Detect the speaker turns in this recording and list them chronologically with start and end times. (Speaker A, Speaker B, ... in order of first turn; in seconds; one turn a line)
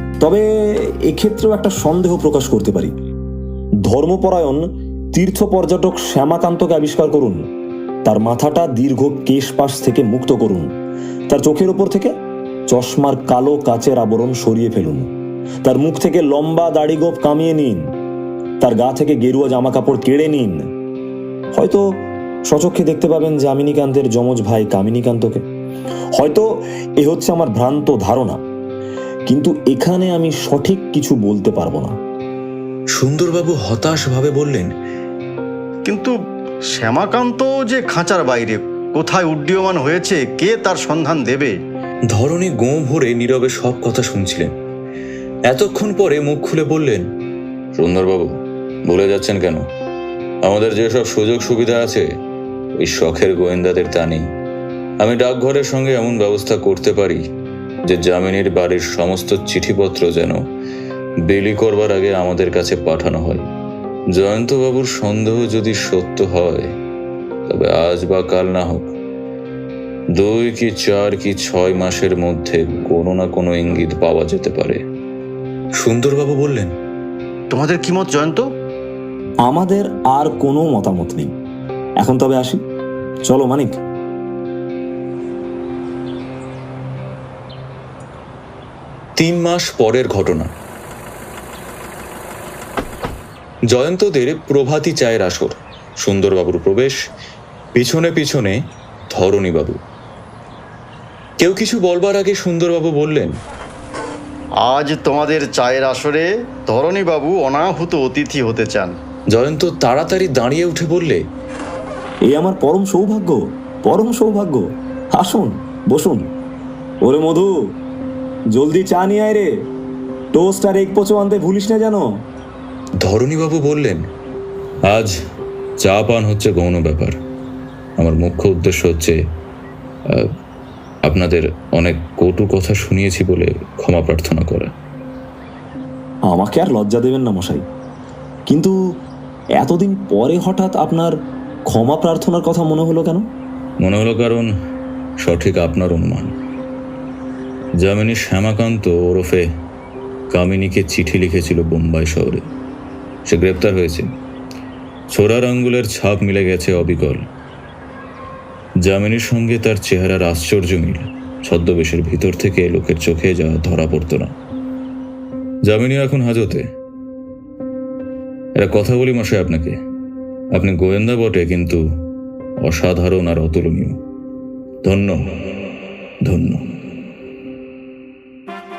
Speaker A: 0.2-2.9
Speaker A: 3.8-7.4
Speaker A: 8.1-10.7
Speaker A: 11.3-12.1
Speaker A: 12.7-15.1
Speaker A: 15.6-17.9
Speaker A: 18.6-20.7
Speaker A: 21.6-21.9
Speaker A: 22.5-25.4
Speaker A: 26.1-28.4
Speaker A: 29.3-32.0
Speaker B: 32.9-34.7
Speaker C: 35.9-36.1
Speaker C: 36.7-41.5
Speaker B: 42.1-44.5
Speaker B: 45.5-47.1
Speaker B: 47.8-49.7
Speaker B: 50.4-52.1
Speaker B: 52.8-54.3
Speaker B: 55.0-57.2
Speaker B: 57.9-60.4
Speaker B: 61.3-63.5
Speaker B: 64.1-66.7
Speaker B: 67.5-68.9
Speaker B: 70.1-74.8
Speaker B: 75.8-76.7
Speaker C: 77.5-78.5
Speaker A: 79.4-81.3
Speaker A: 82.0-82.6
Speaker A: 83.3-83.8
Speaker B: 89.2-90.5
Speaker B: 93.7-97.0
Speaker B: 97.8-98.6
Speaker B: 99.1-99.8
Speaker B: 101.4-103.4
Speaker C: 104.6-109.0
Speaker B: 109.3-111.2
Speaker A: 112.3-116.3
Speaker A: 117.0-117.5
Speaker A: 118.5-119.5
Speaker A: 120.3-122.1
Speaker B: 123.0-124.0
Speaker B: 124.9-125.2
Speaker B: 125.8-127.2
Speaker B: 128.0-129.2
Speaker B: 131.1-134.7
Speaker A: 136.3-137.6
Speaker A: 138.5-138.8
Speaker A: 139.6-141.2
Speaker A: 141.7-143.3
Speaker B: 143.8-144.5
Speaker B: 145.2-146.3
Speaker B: 147.8-149.5
Speaker B: 150.3-152.5
Speaker B: 153.3-154.1
Speaker B: 155.1-157.2
Speaker B: 158.9-164.3
Speaker B: 165.7-166.7
Speaker B: 168.6-169.8
Speaker B: 170.6-171.8
Speaker B: 172.6-174.0
Speaker B: 174.8-175.2
Speaker B: 176.2-176.7